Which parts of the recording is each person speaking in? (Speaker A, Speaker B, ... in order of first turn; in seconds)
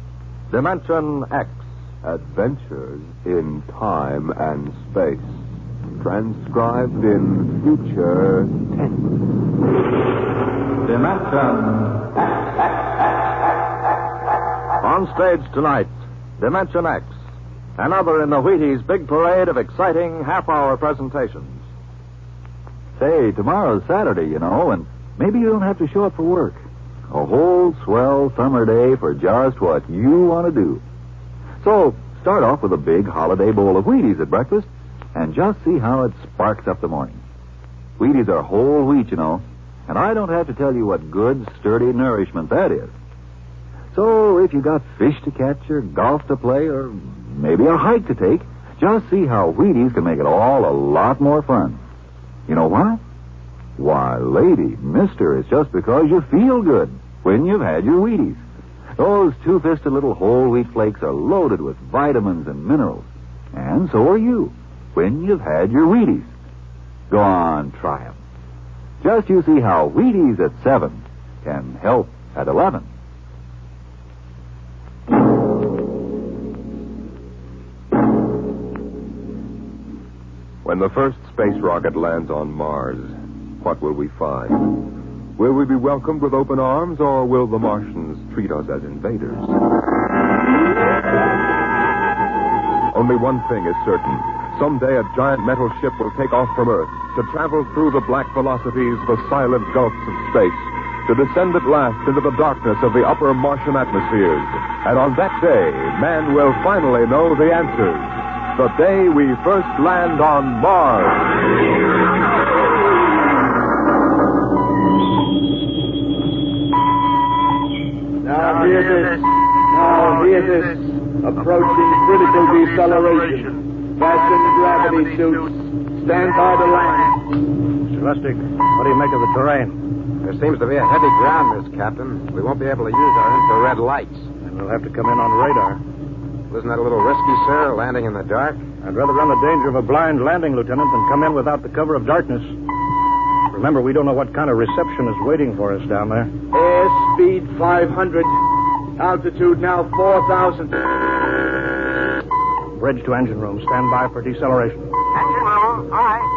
Speaker A: 0.5-1.6, 10.8-12.1, 14.8-17.1, 17.8-21.6
Speaker B: 2.0-5.3, 6.0-8.5, 80.6-84.7, 85.4-89.5, 92.9-111.3
Speaker C: 23.0-30.8, 31.6-37.2, 38.0-42.9, 43.9-51.8, 52.5-53.0, 53.8-58.4, 59.0-66.3, 67.1-68.1, 69.0-72.8
Speaker D: 118.2-127.1, 146.5-148.3, 149.0-150.8
Speaker E: 127.9-129.8, 134.4-135.8, 138.8-142.5, 143.5-146.3, 152.8-154.9
Speaker F: 130.2-134.2, 136.5-138.6, 155.4-156.1